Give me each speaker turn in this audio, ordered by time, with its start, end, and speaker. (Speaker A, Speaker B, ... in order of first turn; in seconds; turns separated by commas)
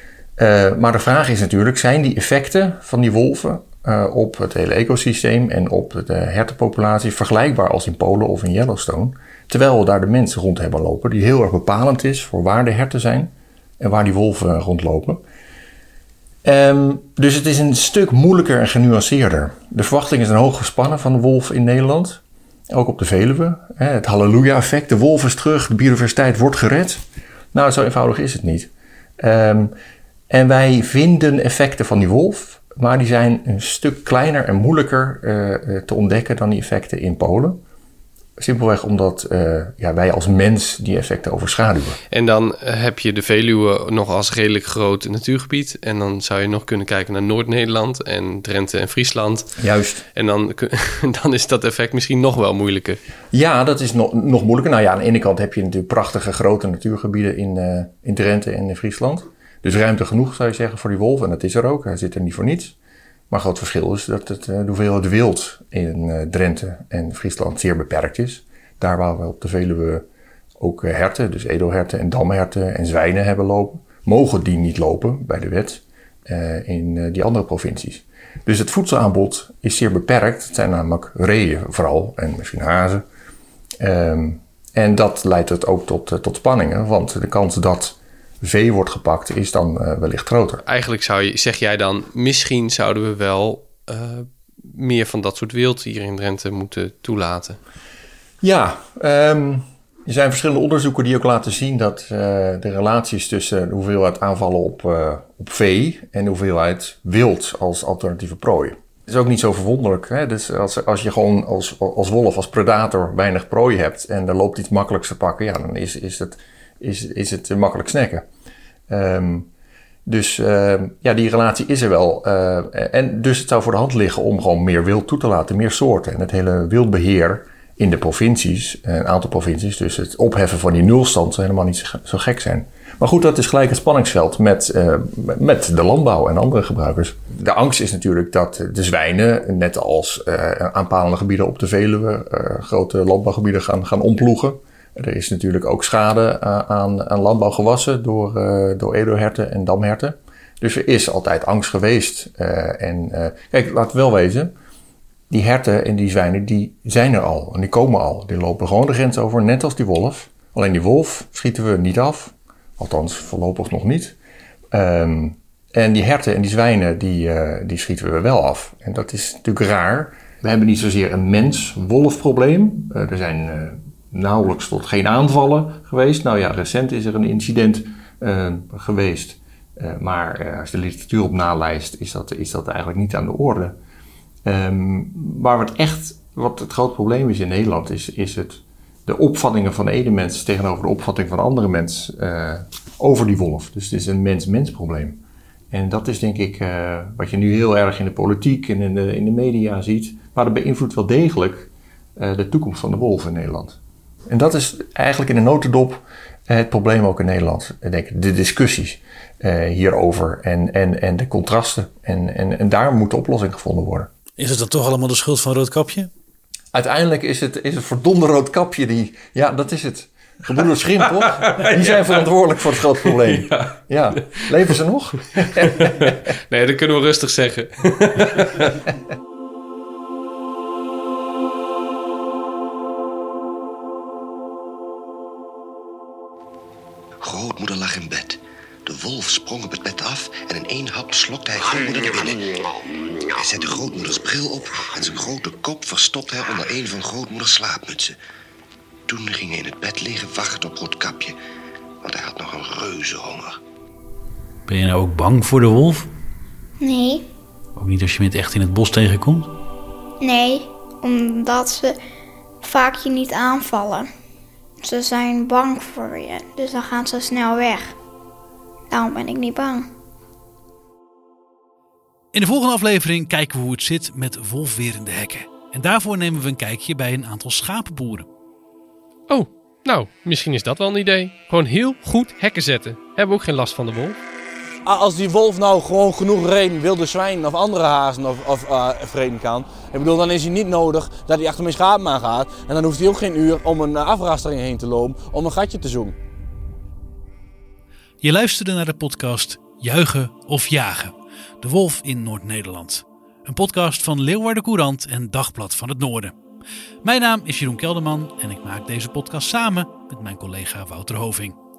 Speaker A: 0.4-15.2, Speaker A: 16.4-29.7, Speaker A: 30.3-37.6, Speaker A: 38.4-42.0, Speaker B: 42.1-49.5, Speaker A: 49.6-50.0, Speaker B: 50.1-53.0, Speaker A: 53.3-62.8, Speaker A: 63.3-70.0, Speaker A: 70.6-83.0, Speaker A: 83.8-90.6, Speaker B: 90.7-97.6, Speaker A: 98.4-118.3, Speaker A: 118.9-119.5, Speaker A: 120.1-154.5, Speaker A: 155.3-164.2, Speaker A: 164.7-183.8, Speaker A: 184.4-214.1, Speaker C: 214.4-216.1, Speaker A: 216.7-226.2, Speaker B: 221.4-222.2, Speaker B: 223.1-223.8, Speaker B: 225.6-228.8, Speaker D: 237.2-242.6, Speaker D: 243.3-248.2, Speaker D: 249.1-251.4, Speaker D: 252.0-253.6, Speaker C: 254.7-256.1, Speaker E: 256.8-257.3, Speaker C: 257.8-259.5, Speaker E: 260.2-262.0, Speaker E: 262.6-264.1, Speaker E: 264.8-268.0, Speaker E: 268.9-269.9, Speaker C: 272.3-278.3, Speaker B: 279.3-284.2, Speaker F: 284.9-296.2, Speaker C: 298.2-306.4, Speaker C: 307.0-311.6